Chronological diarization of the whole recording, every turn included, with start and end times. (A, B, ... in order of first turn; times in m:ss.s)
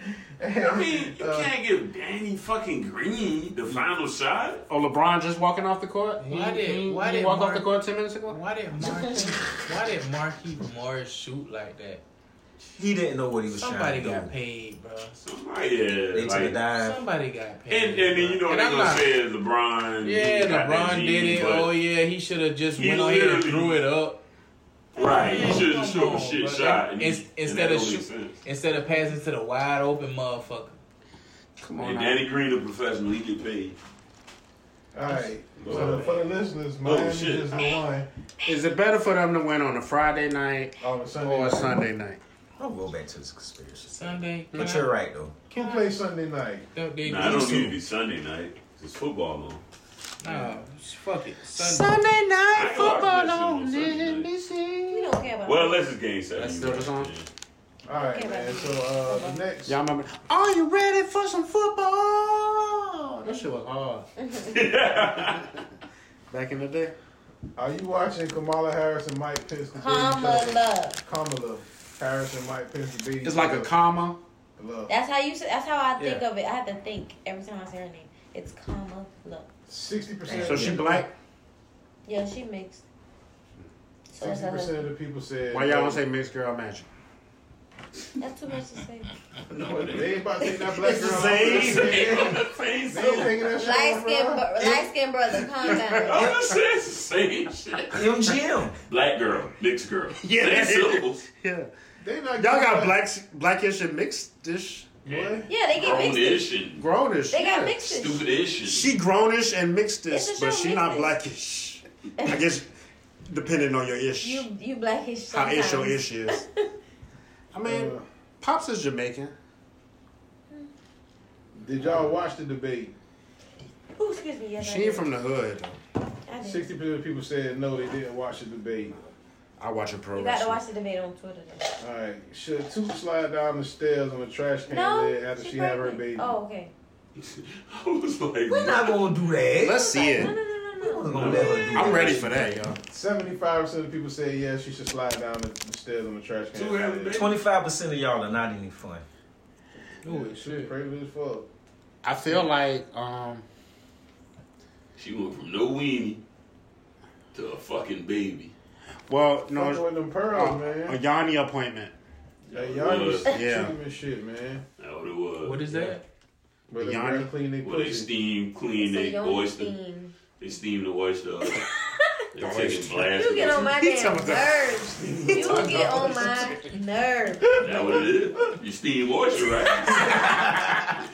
0:00.4-0:01.5 A
0:00.6-0:04.6 B
0:04.7-0:08.4 C
0:06.2-0:07.7 D
0:08.3-0:12.0 D
0:12.8-0:14.3 E
0:13.5-0:15.2 D
0:15.2-0:16.6 B
0:16.1-0:17.0 E
0:16.7-0:19.1 D
0:17.7-0:21.7 B
0:20.0-0:24.2 D
0:22.8-0:23.8 B
0:24.9-0:28.4 B
0:25.0-0:30.8 D
0:31.6-0:32.2 C
0:31.8-0:33.8 B
0:34.9-0:38.1 A
0:35.6-0:36.2 B
0:35.7-0:36.2 D
0:36.8-0:37.8 B
0:38.4-0:42.2 C
0:40.8-0:41.8 A
0:42.6-0:45.4 E
0:43.8-0:44.9 D
0:44.5-0:44.8 C
0:45.5-0:46.7 A
0:46.7-0:47.8 D
0:47.0-0:49.6 B
0:47.2-0:47.6 A
0:50.2-0:52.0 D
0:51.5-0:55.2 C
0:52.5-0:54.3 B
0:54.9-0:55.8 F
0:55.4-0:57.3 B
0:56.3-0:57.1 C
0:57.8-0:59.8 A
0:58.1-0:59.4 F
0:59.6-1:04.1 C
1:04.2-1:04.6 F
1:04.4-1:05.5 B
1:06.3-1:07.0 C
1:07.6-1:13.7 A
1:09.7-1:11.0 F
1:13.2-1:14.2 C
1:14.6-1:14.9 A
1:14.9-1:19.5 F
1:16.0-1:16.2 A
1:19.7-1:21.0 A
1:20.3-1:20.8 E
1:20.3-1:21.1 C
1:22.0-1:22.8 F
1:24.1-1:24.9 F
1:24.2-1:26.0 A
1:25.5-1:26.9 C
1:28.2-1:29.1 F
1:29.5-1:30.4 B
1:29.6-1:34.7 A
1:30.4-1:30.7 F
1:30.8-1:32.3 C
1:31.0-1:33.5 B
1:33.5-1:36.4 F
1:34.6-1:34.8 E
1:35.6-1:36.2 C
1:36.0-1:38.3 B
1:37.9-1:38.8 E
1:38.8-1:41.2 B
1:40.2-1:41.7 C
1:42.0-1:43.0 A
1:42.3-1:45.0 C
1:45.0-1:45.5 A
1:45.1-1:46.8 B
1:45.5-1:46.6 F
1:46.8-1:47.9 C
1:47.3-1:48.2 F
1:47.8-1:49.0 B
1:48.6-1:52.7 C
1:50.1-1:51.1 F
1:53.3-1:54.5 C
1:54.2-1:56.5 F
1:55.3-1:56.4 C
1:57.5-1:59.3 C
1:57.6-1:58.0 A
2:01.5-2:02.9 A
2:01.8-2:02.1 C
2:04.0-2:05.1 F
2:04.6-2:05.8 C
2:06.3-2:06.7 F
2:06.4-2:09.0 A
2:09.6-2:10.6 C
2:10.1-2:11.7 F
2:11.8-2:16.3 A
2:14.6-2:16.7 F
2:17.2-2:19.1 B
2:18.5-2:22.2 E
2:19.6-2:20.4 C
2:19.9-2:21.3 F
2:21.0-2:22.6 B
2:21.6-2:22.8 C
2:22.9-2:27.2 A
2:26.5-2:27.4 B
2:27.1-2:29.0 E
2:30.0-2:31.5 A
2:30.0-2:30.7 D
2:32.0-2:33.4 C
2:35.0-2:36.2 B
2:37.3-2:38.5 B
2:39.1-2:41.9 C
2:39.5-2:41.0 A
2:42.5-2:43.3 B
2:42.5-2:44.6 A
2:43.3-2:43.7 C
2:44.8-2:45.6 B
2:45.4-2:46.0 D
2:46.7-2:48.1 A
2:46.8-2:47.3 C
2:47.6-2:49.7 B
2:48.7-2:50.1 F
2:50.4-2:51.7 B
2:51.4-2:52.2 F
2:52.3-2:53.8 B
2:52.4-2:56.8 C
2:53.1-2:57.6 F
2:55.3-2:55.8 B
2:57.4-2:58.1 A
2:57.6-3:00.4 B